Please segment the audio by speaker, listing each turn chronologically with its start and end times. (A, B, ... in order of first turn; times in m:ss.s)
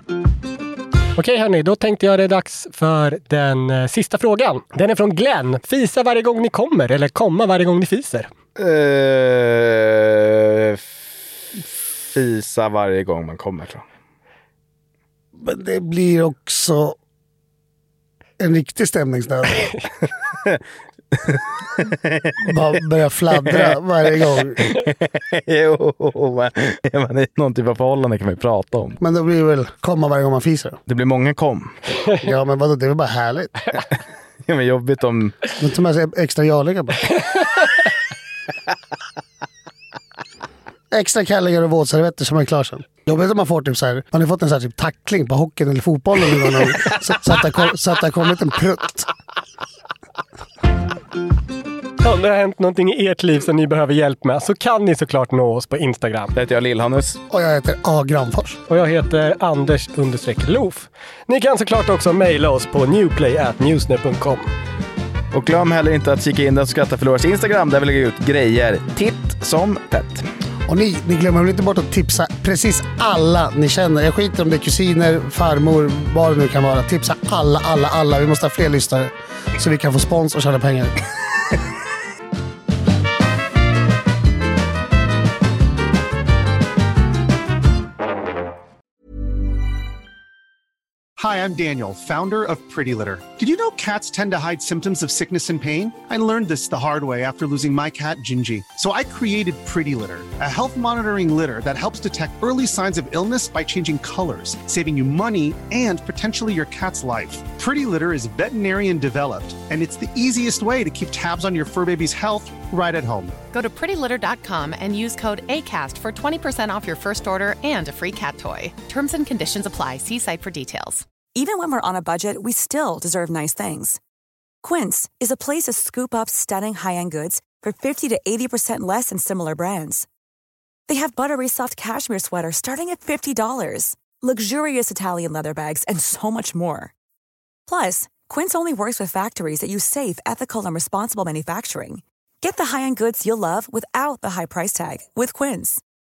0:01.2-0:08.3 A
0:08.6-0:10.8 B
0:12.1-0:13.8 B
0:15.4-0:17.0 C
0:18.4-0:19.7 C
0:21.2-0:22.3 B
0:22.4-0:24.6 C
0:23.5-0:23.8 B
0:24.6-0:29.0 B
0:29.0-0:30.8 C
0:30.9-0:31.8 B
0:32.2-0:33.8 C
0:34.5-0:35.4 B
0:35.6-0:37.1 C
0:40.9-0:49.1 C
0:52.0-0:56.3 A
0:56.4-0:57.2 B
0:57.3-0:58.6 C
0:58.7-1:04.5 A
1:05.3-1:10.3 B
1:10.7-1:21.0 C
1:31.2-1:53.3 D
1:53.5-2:01.0 E
2:01.3-2:04.0 F
2:04.6-2:10.1 F
2:10.9-2:16.9 F
2:17.7-2:25.8 F